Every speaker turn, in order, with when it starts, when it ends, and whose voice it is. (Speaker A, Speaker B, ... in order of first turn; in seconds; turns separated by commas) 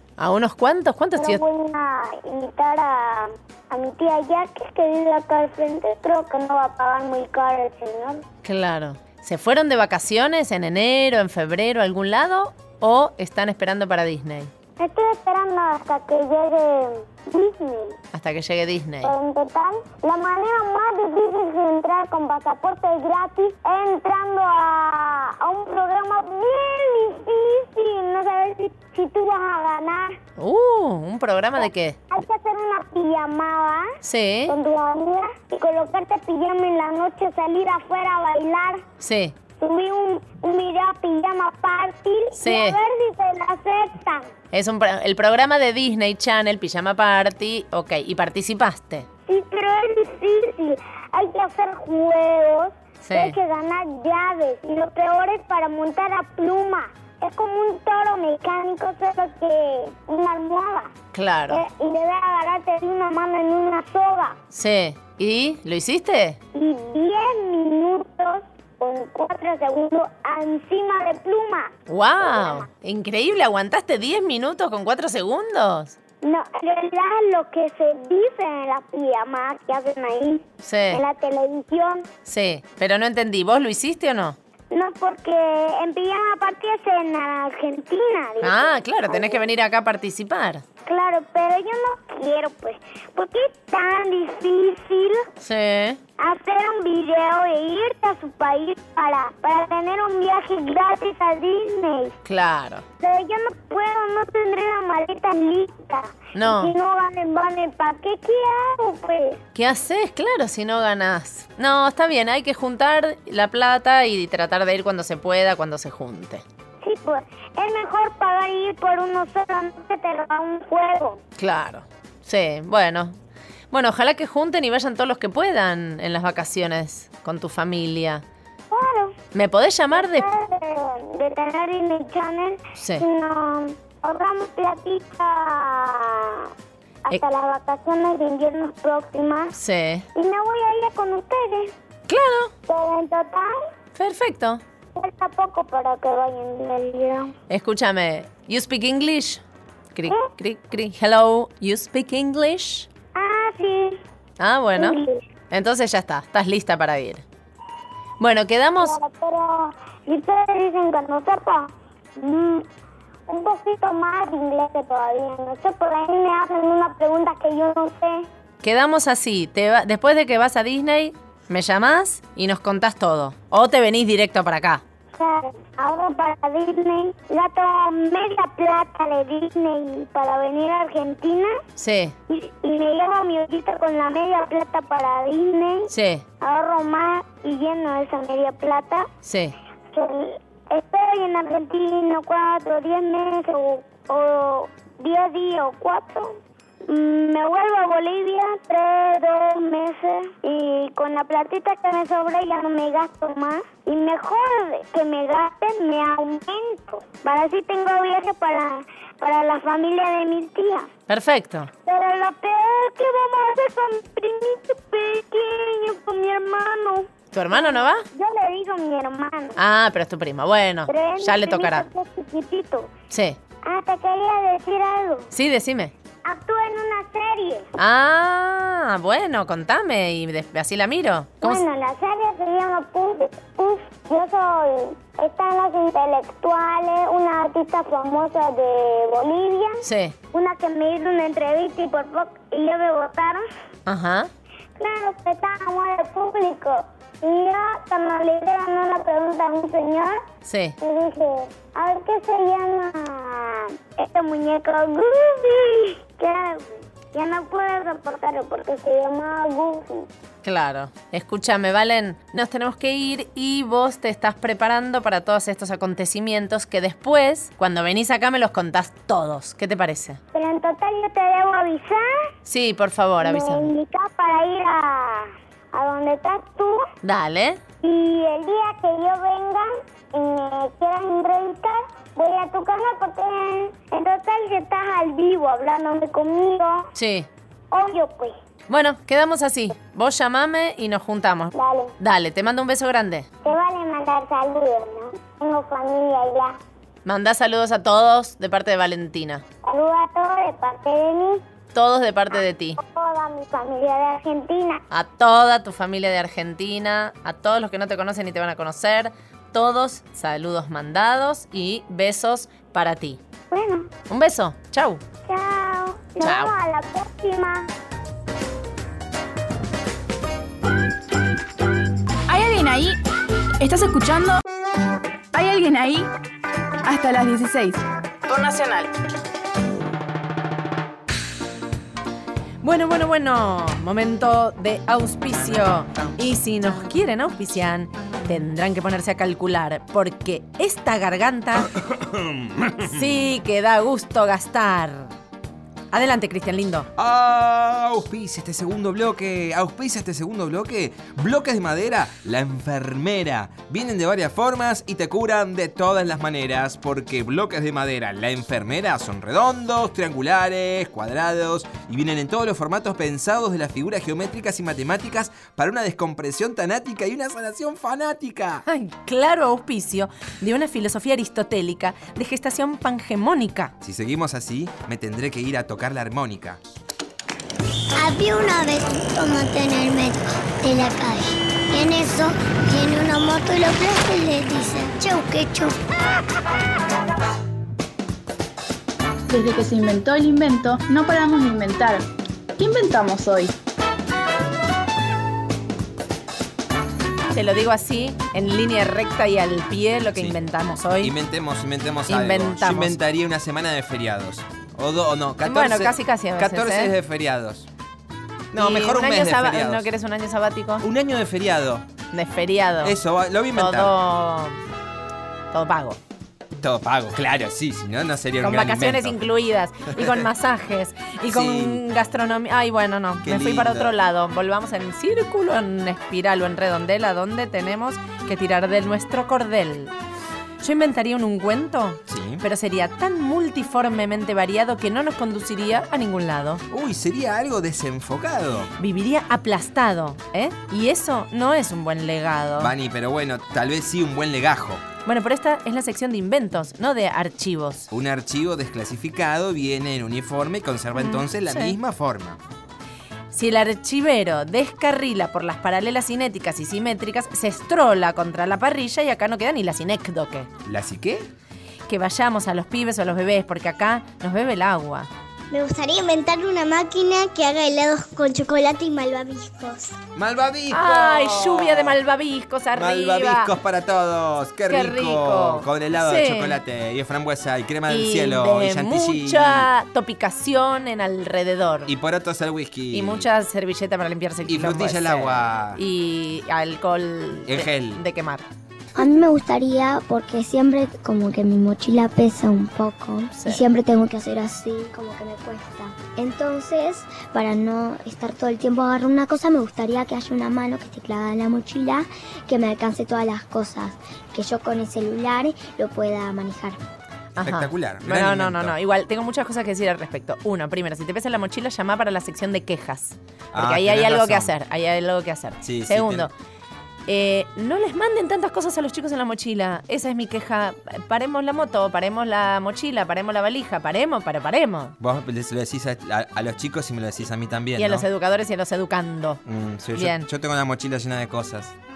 Speaker A: 0.2-1.4, Speaker B: 1.2-8.2, Speaker A: 8.4-14.5, Speaker B: 14.8-17.9, Speaker A: 18.1-19.1, Speaker B: 19.0-30.2, Speaker A: 30.4-32.0, Speaker B: 31.6-33.9, Speaker A: 34.0-34.5, Speaker B: 34.5-38.8, Speaker A: 39.0-39.4, Speaker B: 39.6-44.3, Speaker A: 42.4-42.8, Speaker A: 44.5-49.0, Speaker B: 49.3-60.9, Speaker A: 53.0-53.4, Speaker A: 61.1-61.6, Speaker B: 61.5-64.4, Speaker A: 64.5-66.4, Speaker B: 66.5-72.7, Speaker A: 71.9-75.9, Speaker B: 76.2-82.0, Speaker A: 80.6-81.0, Speaker A: 82.2-84.4, Speaker B: 84.7-89.4, Speaker A: 88.4-90.6, Speaker B: 90.8-95.2, Speaker A: 95.4-96.0, Speaker B: 96.2-102.1, Speaker A: 102.2-102.8, Speaker B: 103.0-109.4, Speaker A: 106.3-106.7, Speaker A: 109.5-116.4, Speaker B: 116.8-121.2, Speaker A: 121.4-123.2, Speaker A: 123.7-128.2, Speaker B: 128.7-129.2, Speaker A: 129.3-130.3, Speaker B: 129.9-136.5, Speaker A: 132.8-133.1, Speaker B: 137.1-139.6, Speaker A: 139.5-140.1, Speaker B: 140.1-141.7, Speaker A: 142.1-142.5, Speaker B: 142.7-143.6, Speaker A: 143.9-144.6, Speaker B: 144.9-147.3, Speaker A: 147.5-149.4, Speaker A: 149.9-152.9, Speaker B: 153.1-154.0, Speaker A: 154.4-155.0, Speaker B: 154.8-155.2, Speaker A: 155.5-157.2, Speaker A: 158.2-158.9, Speaker B: 158.8-162.7, Speaker B: 163.3-168.2, Speaker A: 168.6-174.8, Speaker B: 175.1-181.6, Speaker A: 181.8-182.1, Speaker B: 182.3-189.1, Speaker A: 185.9-186.2, Speaker A: 189.2-189.5, Speaker B: 189.9-210.9, Speaker A: 211.1-211.7, Speaker B: 211.8-219.6, Speaker A: 217.3-218.0, Speaker A: 219.6-221.8, Speaker B: 220.9-222.9, Speaker A: 223.1-223.4, Speaker B: 223.6-225.3, Speaker A: 225.3-225.9, Speaker B: 226.2-227.7, Speaker A: 227.8-231.6, Speaker B: 231.4-243.4, Speaker A: 239.8-240.1, Speaker A: 243.9-244.3, Speaker B: 244.8-250.2, Speaker A: 250.4-250.7, Speaker B: 250.8-260.1, Speaker A: 260.4-270.2, Speaker B: 270.3-272.0, Speaker A: 272.4-273.7, Speaker B: 273.2-276.8, Speaker A: 277.0-277.6, Speaker B: 277.8-286.9, Speaker A: 286.9-287.3, Speaker B: 287.7-288.3, Speaker A: 288.7-293.3, Speaker B: 291.5-291.9, Speaker B: 293.4-296.6, Speaker A: 297.0-299.4, Speaker B: 299.6-301.4, Speaker A: 301.7-302.8, Speaker B: 302.8-304.8, Speaker A: 304.9-313.2, Speaker B: 313.5-313.9, Speaker A: 314.1-315.0, Speaker B: 315.3-317.7, Speaker A: 316.2-316.5, Speaker C: 322.3-323.0, Speaker C: 323.6-324.4, Speaker C: 325.3-326.1, Speaker C: 326.8-328.9, Speaker A: 332.6-341.7, Speaker D: 341.8-343.3, Speaker A: 342.8-345.1, Speaker A: 345.9-346.9, Speaker D: 346.9-368.6, Speaker A: 368.7-373.7, Speaker D: 373.8-376.6, Speaker E: 378.0-385.8, Speaker C: 389.3-392.1, Speaker C: 392.6-393.5, Speaker A: 397.3-401.1, Speaker D: 401.0-407.7, Speaker A: 402.1-403.0, Speaker A: 405.4-406.9, Speaker D: 408.5-409.9, Speaker A: 408.6-410.8, Speaker D: 410.8-411.8, Speaker A: 412.1-413.0, Speaker D: 412.8-413.9, Speaker A: 413.5-414.6, Speaker A: 415.5-416.0, Speaker D: 416.6-419.2, Speaker A: 418.4-429.9, Speaker D: 421.3-421.8, Speaker D: 423.2-423.9, Speaker A: 430.6-436.6, Speaker D: 432.1-432.4, Speaker D: 436.7-438.7, Speaker A: 438.8-442.7, Speaker D: 442.6-444.8, Speaker A: 445.0-447.9, Speaker D: 447.9-452.4, Speaker A: 450.9-451.7, Speaker A: 453.3-460.5, Speaker D: 460.6-461.3, Speaker A: 461.9-465.1, Speaker E: 465.5-470.0, Speaker D: 470.1-471.9, Speaker A: 470.7-473.5, Speaker D: 472.7-479.7, Speaker A: 474.7-476.6, Speaker A: 477.9-481.9, Speaker D: 481.9-483.3, Speaker A: 482.9-488.4, Speaker D: 484.5-485.8, Speaker D: 487.5-488.0, Speaker E: 489.0-506.8, Speaker A: 493.3-493.6, Speaker A: 507.4-516.3, Speaker D: 507.4-508.8, Speaker D: 513.5-514.5, Speaker D: 515.6-516.3, Speaker A: 517.1-524.9, Speaker D: 525.0-528.0, Speaker A: 527.8-529.4, Speaker D: 529.5-531.7, Speaker A: 530.0-530.3